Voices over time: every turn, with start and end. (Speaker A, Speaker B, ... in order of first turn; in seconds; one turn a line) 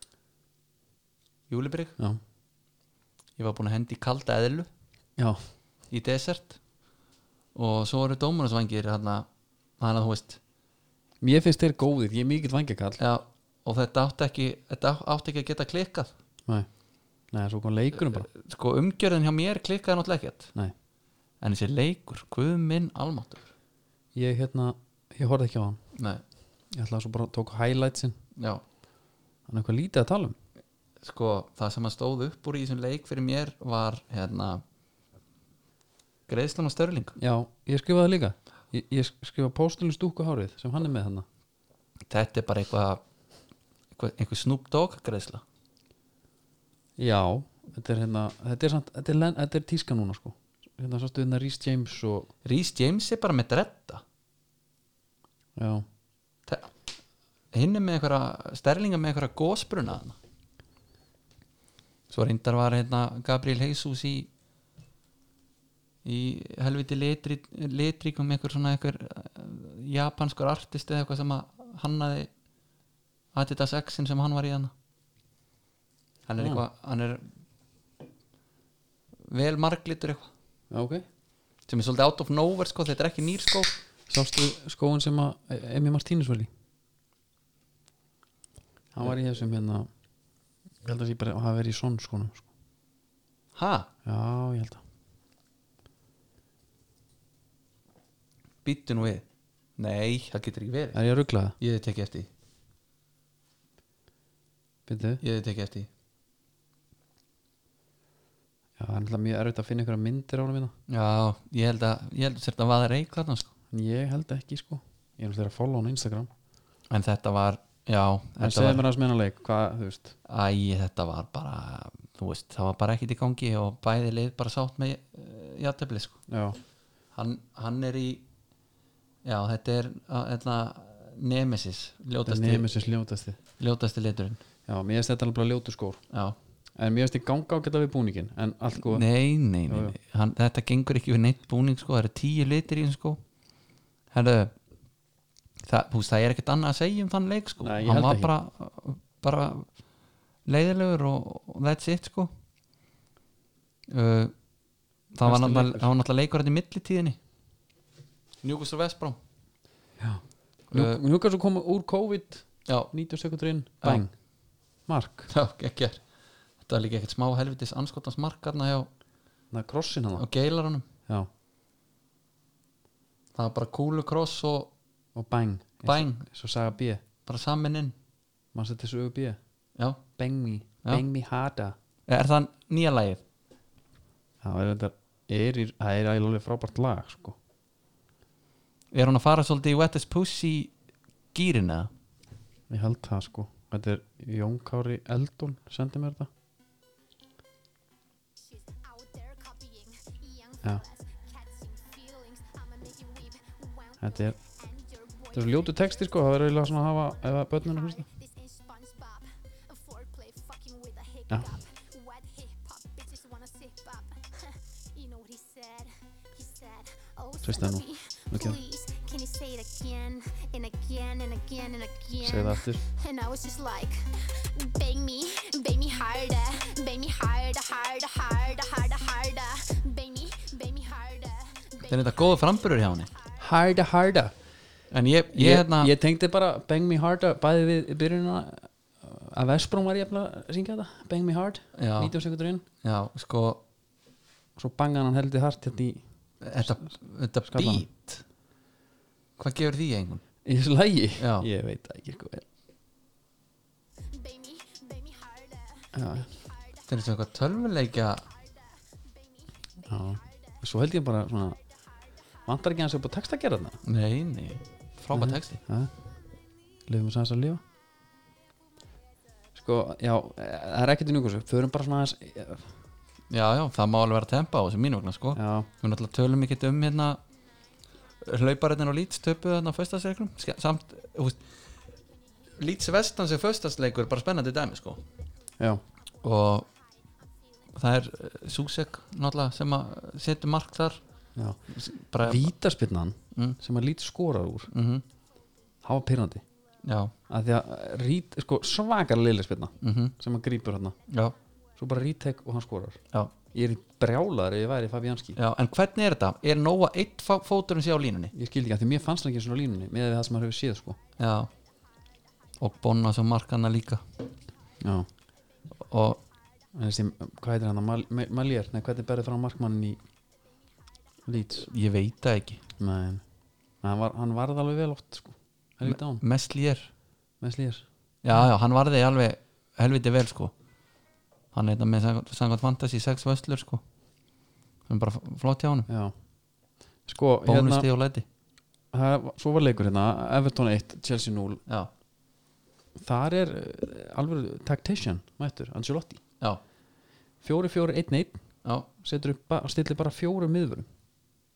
Speaker A: 1.5-2.0
Speaker A: 3.4-4.7
Speaker A: 5.9-6.6
Speaker A: 7.5-9.3
Speaker A: 9.8-10.4
Speaker B: 11.2-13.0
Speaker A: 13.0-16.1
Speaker B: 17.3-18.3
Speaker A: 18.1-20.5
Speaker A: 21.4-23.5
Speaker B: 24.1-25.8
Speaker A: 25.9-26.2
Speaker B: 26.7-28.2
Speaker A: 28.4-28.6
Speaker B: 29.5-30.4
Speaker A: 31.0-34.6
Speaker A: 36.3-37.2
Speaker B: 37.2-41.3
Speaker A: 42.1-43.0
Speaker A: 44.0-45.4
Speaker B: 47.0-52.3
Speaker A: 52.5-54.0
Speaker B: 55.6-55.9
Speaker A: 57.5-60.2
Speaker A: 62.1-64.3
Speaker A: 66.0-72.3
Speaker A: 73.3-74.7
Speaker A: 76.3-77.2
Speaker A: 79.3-80.3
Speaker B: 80.7-81.0
Speaker A: 81.7-83.8
Speaker B: 84.1-86.5
Speaker B: 88.9-89.9
Speaker B: 90.8-92.5
Speaker A: 93.5-93.9
Speaker B: 94.0-94.8
Speaker A: 98.6-99.3
Speaker A: 99.8-101.0
Speaker B: 100.9-101.6
Speaker A: 101.6-102.3
Speaker B: 104.9-105.2
Speaker A: 105.2-105.9
Speaker B: 108.8-110.7
Speaker A: 110.9-113.5
Speaker B: 113.7-116.3
Speaker A: 116.9-118.9
Speaker B: 118.4-120.1
Speaker A: 120.3-126.2
Speaker B: 126.3-126.6
Speaker A: 127.2-128.2
Speaker A: 129.2-132.7
Speaker B: 132.3-133.4
Speaker A: 133.6-134.4
Speaker B: 134.7-136.0
Speaker A: 136.1-136.4
Speaker B: 136.8-139.1
Speaker A: 138.8-143.2
Speaker B: 139.7-140.0
Speaker A: 144.1-144.5
Speaker A: 145.6-149.7
Speaker B: 147.6-148.3
Speaker A: 150.5-152.3
Speaker A: 153.9-154.3
Speaker A: 155.1-157.2
Speaker B: 155.2-155.9
Speaker A: 158.4-159.2
Speaker B: 160.0-164.1
Speaker A: 160.7-161.0
Speaker B: 164.9-165.3
Speaker A: 165.3-166.0
Speaker A: 166.6-168.9
Speaker B: 169.5-170.2
Speaker A: 170.2-170.9
Speaker A: 173.3-174.7
Speaker B: 175.2-177.0
Speaker A: 175.8-176.2
Speaker A: 177.3-177.9
Speaker B: 178.5-179.4
Speaker B: 180.2-181.8
Speaker A: 182.1-183.2
Speaker B: 184.4-187.4
Speaker A: 188.9-190.7
Speaker A: 191.3-191.9
Speaker B: 192.7-196.3
Speaker C: 198.4-233.4
Speaker B: 204.0-204.4
Speaker B: 205.3-208.1
Speaker B: 217.4-218.6
Speaker B: 222.2-222.8
Speaker A: 231.8-233.1
Speaker B: 233.4-234.3
Speaker A: 234.9-235.9
Speaker B: 235.3-242.7
Speaker A: 241.8-242.2
Speaker A: 242.8-243.6
Speaker B: 244.6-246.0
Speaker A: 246.4-248.2
Speaker B: 247.5-247.9
Speaker A: 249.4-250.2
Speaker B: 250.4-252.4
Speaker A: 251.2-251.5
Speaker C: 254.1-260.7
Speaker B: 255.9-256.3
Speaker A: 256.9-258.2
Speaker B: 259.9-261.6
Speaker C: 261.4-262.5
Speaker B: 262.5-263.8
Speaker A: 263.8-265.6
Speaker B: 265.1-265.9
Speaker B: 266.9-267.6
Speaker B: 269.6-272.7
Speaker A: 273.3-277.2
Speaker B: 275.4-275.7
Speaker A: 278.2-281.4
Speaker C: 282.1-282.5
Speaker A: 282.6-285.0
Speaker C: 285.0-285.8
Speaker A: 286.2-286.7
Speaker C: 286.3-288.4
Speaker A: 287.8-291.0
Speaker C: 291.1-291.3
Speaker A: 291.7-292.5
Speaker B: 292.2-294.7
Speaker A: 294.7-295.0
Speaker B: 295.8-296.4
Speaker A: 296.8-297.1
Speaker B: 297.3-301.0
Speaker A: 299.8-300.1
Speaker C: 301.1-301.8
Speaker A: 301.1-301.3
Speaker B: 301.8-303.0
Speaker B: 303.5-305.4
Speaker A: 305.4-308.3
Speaker B: 308.3-311.0
Speaker A: 311.2-311.5
Speaker C: 311.4-312.6
Speaker A: 312.6-314.0
Speaker B: 314.8-315.1
Speaker C: 315.7-316.7
Speaker A: 315.8-316.2
Speaker B: 316.7-320.0
Speaker B: 321.3-321.7
Speaker A: 321.7-322.6
Speaker B: 322.8-323.2
Speaker B: 323.8-326.2
Speaker A: 325.9-326.9
Speaker B: 327.4-327.9
Speaker A: 328.2-330.5
Speaker A: 331.5-333.8
Speaker A: 334.9-335.9
Speaker B: 335.9-336.1
Speaker B: 337.1-337.9
Speaker A: 337.5-338.2
Speaker B: 338.9-341.6
Speaker B: 343.0-346.2
Speaker B: 347.4-348.4
Speaker B: 349.0-350.9